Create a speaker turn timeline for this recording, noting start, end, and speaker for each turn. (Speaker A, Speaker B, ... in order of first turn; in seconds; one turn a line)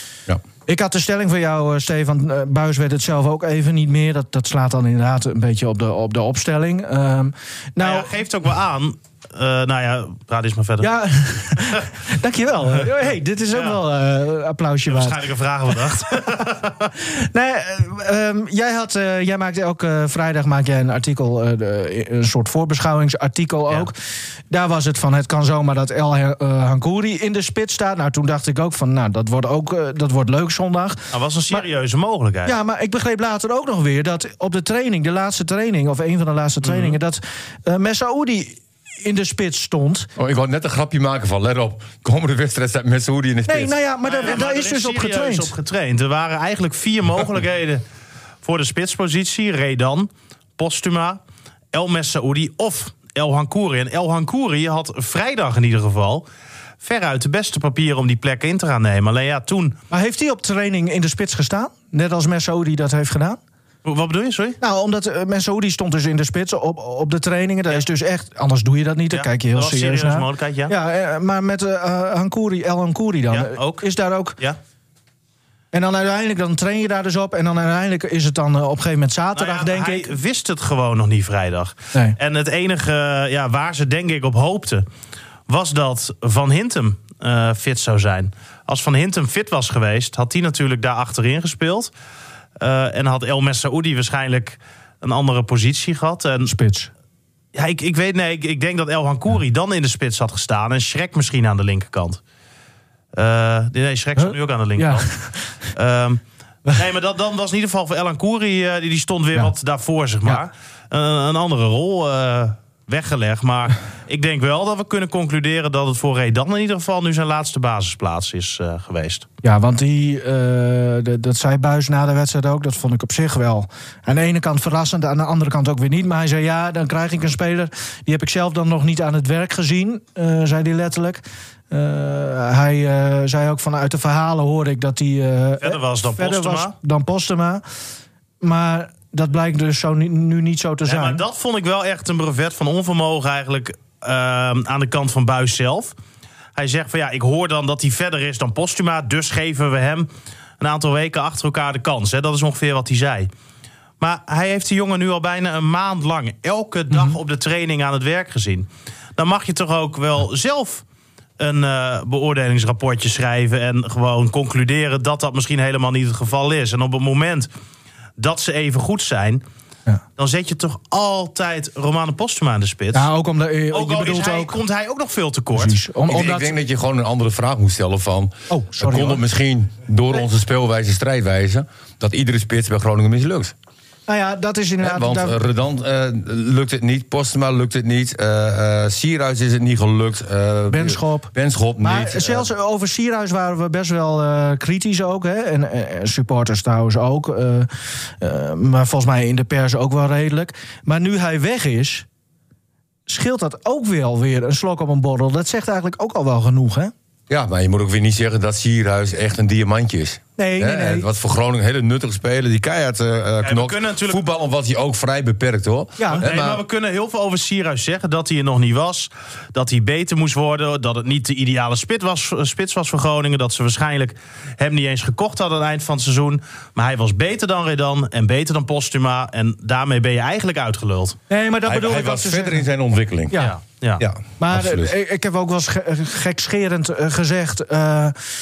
Speaker A: 0.7-8.1
Speaker B: 7.8-10.9
Speaker A: 10.8-15.2
Speaker B: 13.5-13.8
Speaker B: 14.9-16.9
Speaker A: 17.0-23.9
Speaker A: 24.5-31.6
Speaker B: 31.1-32.5
Speaker A: 32.5-40.1
Speaker B: 36.6-37.0
Speaker C: 40.2-43.7
Speaker A: 43.5-45.5
Speaker B: 44.1-47.8
Speaker B: 48.4-51.2
Speaker B: 51.7-56.3
Speaker B: 56.8-59.8
Speaker A: 59.9-63.4
Speaker B: 63.9-64.6
Speaker A: 64.6-74.4
Speaker B: 69.1-70.7
Speaker B: 73.3-73.8
Speaker A: 75.7-80.1
Speaker B: 79.3-84.9
Speaker B: 85.5-91.9
Speaker B: 92.6-96.5
Speaker A: 96.5-96.9
Speaker B: 97.5-102.2
Speaker B: 103.2-105.1
Speaker A: 104.2-105.0
Speaker B: 105.7-119.3
Speaker A: 119.4-137.6
Speaker B: 135.6-136.7
Speaker A: 138.4-141.2
Speaker B: 140.9-145.9
Speaker B: 146.6-150.1
Speaker B: 150.6-153.3
Speaker B: 154.0-160.8
Speaker A: 156.9-157.2
Speaker B: 161.4-167.5
Speaker B: 168.2-169.4
Speaker B: 170.2-173.1
Speaker A: 172.9-174.6
Speaker B: 173.7-175.8
Speaker A: 175.5-176.5
Speaker C: 176.1-183.5
Speaker A: 178.5-179.2
Speaker A: 184.1-185.4
Speaker C: 184.8-192.5
Speaker A: 190.7-202.1
Speaker A: 203.1-206.9
Speaker C: 207.3-216.6
Speaker A: 210.4-211.1
Speaker B: 213.4-214.2
Speaker A: 216.0-216.2
Speaker B: 216.1-231.2
Speaker A: 231.3-232.7
Speaker C: 231.6-233.4
Speaker A: 233.3-233.6
Speaker B: 233.4-234.0
Speaker C: 234.0-234.9
Speaker A: 234.4-238.2